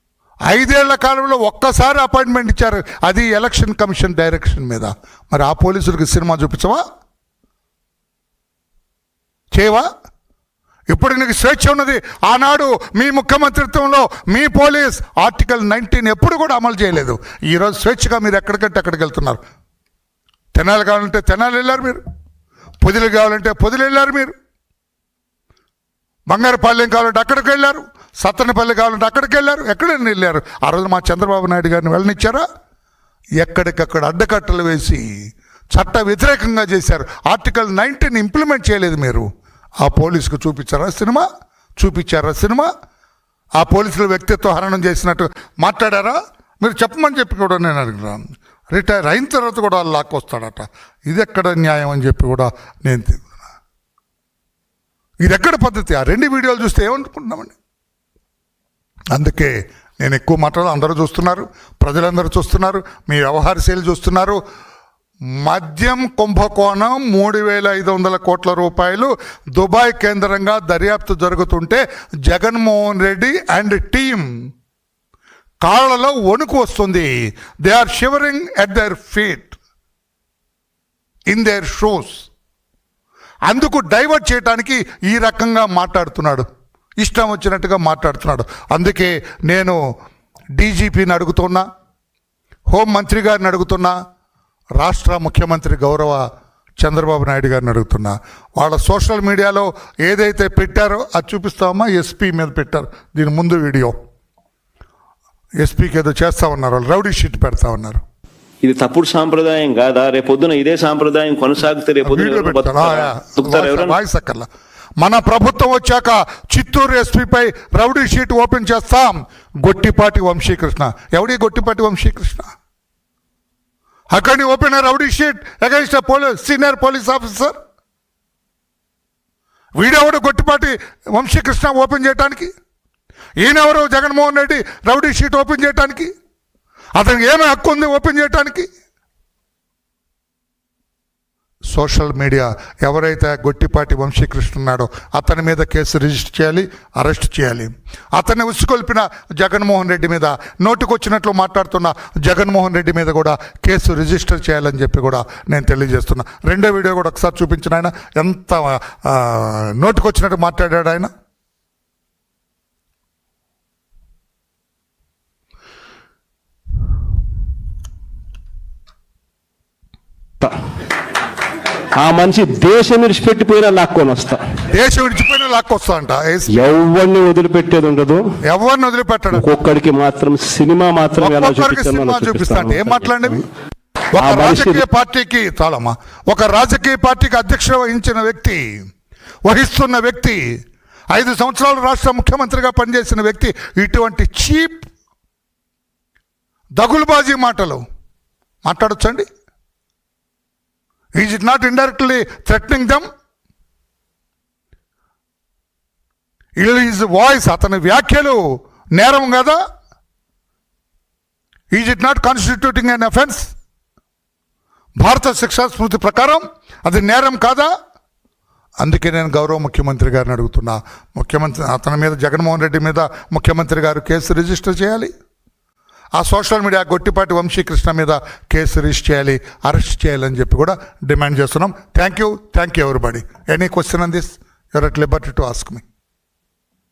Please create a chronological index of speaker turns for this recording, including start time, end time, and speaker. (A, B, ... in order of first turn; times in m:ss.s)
0:00.5-0:06.8 A
0:09.5-0:09.8 A
0:10.9-0:19.4 A
0:20.5-0:22.0 A
0:22.8-0:24.3 A
0:26.3-0:32.4 A
0:33.4-0:35.0 A
0:35.7-0:39.3 A
0:39.8-0:41.2 A
0:41.8-0:42.7 A
0:43.6-0:53.3 A
0:55.2-0:57.5 A
0:59.1-1:04.4 A
1:05.4-1:14.2 A
1:15.6-1:17.1 A
1:17.6-1:19.6 A
1:21.3-1:22.2 A
1:23.5-1:26.5 A
1:27.0-1:29.8 A
1:30.6-1:31.6 A
1:32.7-1:33.9 A
1:34.8-1:36.2 A
1:36.8-1:43.9 A
1:45.6-1:48.0 A
1:48.6-1:54.0 B
1:52.0-1:54.5 A
1:55.0-2:02.5 A
2:04.1-2:07.6 A
2:09.8-2:12.5 A
2:13.4-2:16.1 A
2:17.0-2:18.7 A
2:21.7-2:41.1 A
2:52.0-2:54.4 C
2:54.7-2:56.5 A
2:56.5-2:58.2 C
2:58.4-2:59.5 A
2:59.3-3:03.4 C
3:01.2-3:03.4 A
3:04.1-3:08.6 A
3:04.2-3:04.8 C
3:09.4-3:10.4 A
3:11.1-3:14.9 A
3:16.8-3:17.8 A
3:18.6-3:19.2 A
3:21.2-3:23.0 A
3:26.6-3:28.4 A
3:29.0-3:29.6 A
3:31.7-3:33.5 A
3:35.0-3:37.7 A
3:38.8-3:45.1 A
3:46.2-3:55.8 A